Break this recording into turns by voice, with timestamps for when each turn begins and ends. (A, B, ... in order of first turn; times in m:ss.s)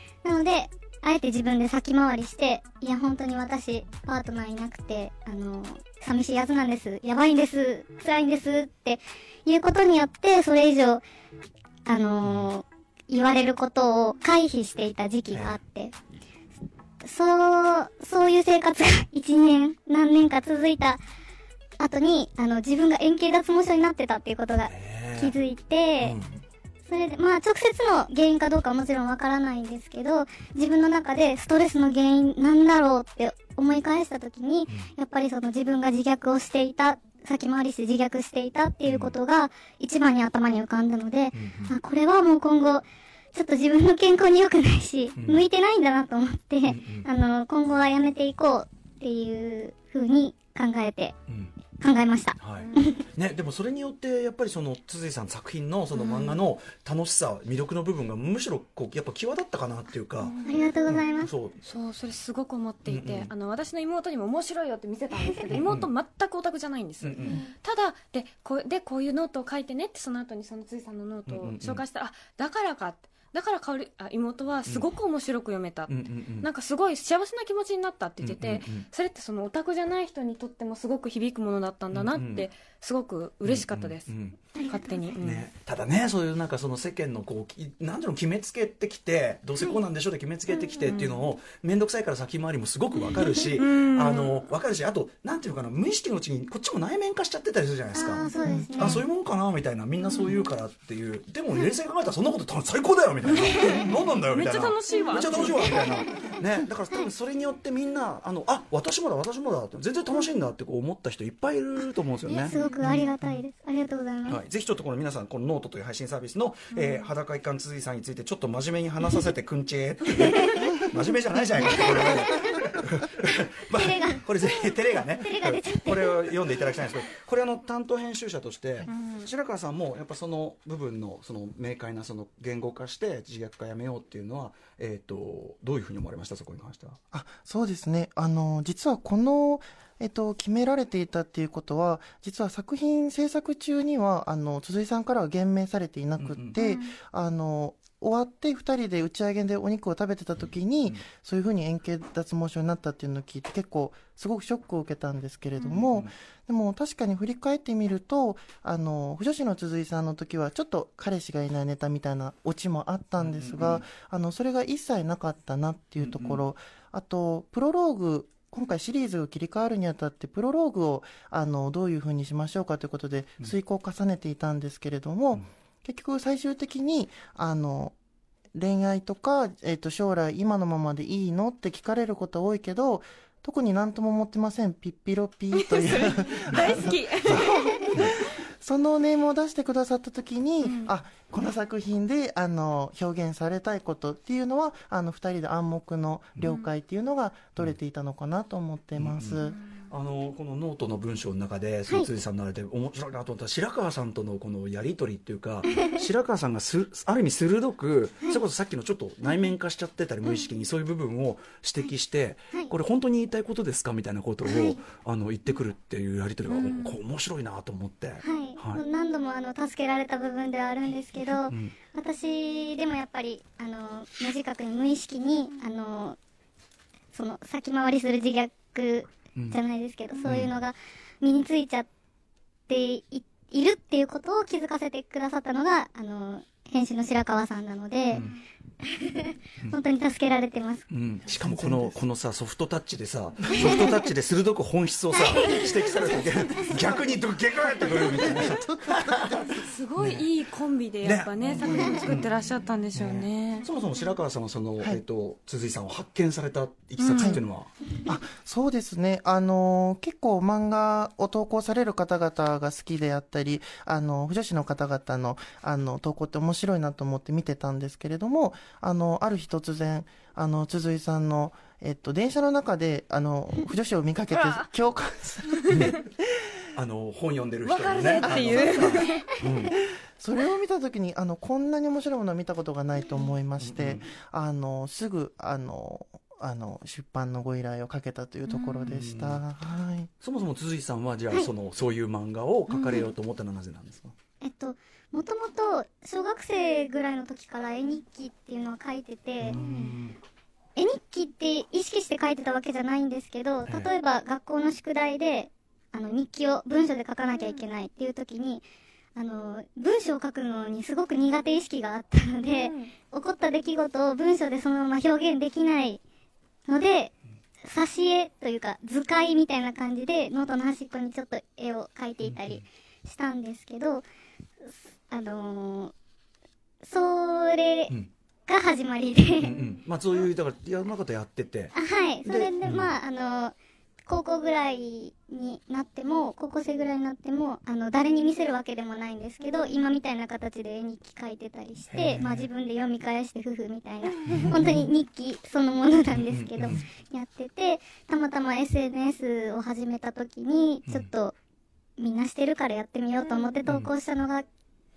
0:00.2-0:11.0 A
0:11.9-0:15.9 A
0:12.2-0:12.5 B
0:15.3-0:15.6 B
0:17.0-0:21.0 A
0:21.8-0:26.2 A
0:24.7-0:25.4 B
0:26.0-0:26.4 B
0:26.9-0:51.1 A
0:38.9-0:39.1 B
0:41.3-0:41.7 B
0:45.2-0:45.4 B
0:46.7-0:47.1 B
0:51.3-0:51.5 B
0:51.8-0:53.0 A
0:52.4-1:00.3 B
0:55.9-0:56.4 C
1:00.2-1:00.8 C
1:00.4-1:01.3 A
1:00.9-1:01.6 B
1:01.6-1:25.5 C
1:02.9-1:03.3 B
1:05.5-1:05.9 B
1:07.0-1:07.4 B
1:11.3-1:11.8 B
1:15.9-1:16.5 B
1:18.2-1:18.9 B
1:21.9-1:22.5 B
1:23.4-1:24.4 B
1:24.6-1:25.1 A
1:25.2-1:38.3 B
1:30.6-1:30.9 A
1:30.8-1:31.2 C
1:33.3-1:34.5 C
1:37.9-1:39.0 A
1:38.5-1:38.9 D
1:38.8-1:52.5 B
1:43.3-1:45.9 C
1:45.0-1:45.9 A
1:52.3-1:53.1 C
1:52.5-1:54.4 A
1:54.3-2:17.0 B
1:56.7-1:57.1 C
2:00.3-2:00.7 A
2:01.6-2:02.4 A
2:03.7-2:04.2 A
2:05.1-2:06.3 A
2:08.9-2:09.2 C
2:17.1-2:58.0 D
2:26.2-2:26.6 B
2:26.6-2:26.9 C
2:35.8-2:36.1 B
2:43.2-2:43.9 B
2:46.0-2:46.4 B
2:58.5-3:19.6 D
3:05.6-3:07.4 C
3:10.6-3:10.9 C
3:19.0-3:38.8 B
3:34.4-3:34.8 A
3:36.5-3:37.0 C
3:38.2-3:46.2 A
3:41.5-3:41.7 B
3:47.1-3:51.9 A
3:50.2-3:50.5 B
3:52.7-3:58.2 A
3:58.8-4:00.9 A
4:00.9-4:10.3 B
4:01.3-4:02.0 D
4:03.5-4:03.9 D
4:05.1-4:06.1 A
4:07.7-4:09.5 D
4:09.5-4:13.7 C
4:11.0-4:11.6 B
4:11.4-4:12.1 D
4:11.7-4:11.9 A
4:12.1-4:12.3 B
4:13.0-4:17.7 B
4:17.0-4:17.4 C
4:17.1-4:17.4 D
4:18.0-4:36.0 D
4:34.3-4:34.6 C
4:35.7-4:36.0 B
4:36.8-4:39.8 B
4:37.6-4:39.3 C
4:38.2-4:38.9 D
4:39.8-4:50.1 D
4:43.6-4:44.1 B
4:48.7-4:49.4 B
4:50.2-4:54.2 B
4:54.4-4:59.6 A
4:59.4-5:00.2 B
4:59.6-4:59.9 C
5:00.8-5:16.0 A
5:03.7-5:03.9 B
5:12.5-5:12.9 C
5:16.7-5:17.1 A
5:17.6-5:24.0 A
5:22.2-5:22.6 B
5:24.6-5:25.9 A
5:26.8-5:27.9 A
5:28.5-5:29.5 A
5:29.4-5:32.9 B
5:31.8-5:33.6 A
5:34.1-5:51.4 A
5:41.9-5:42.5 B
5:44.3-5:44.9 B
5:46.1-5:46.8 B
5:52.0-5:54.5 A
5:53.2-5:53.6 C
5:53.7-5:53.9 B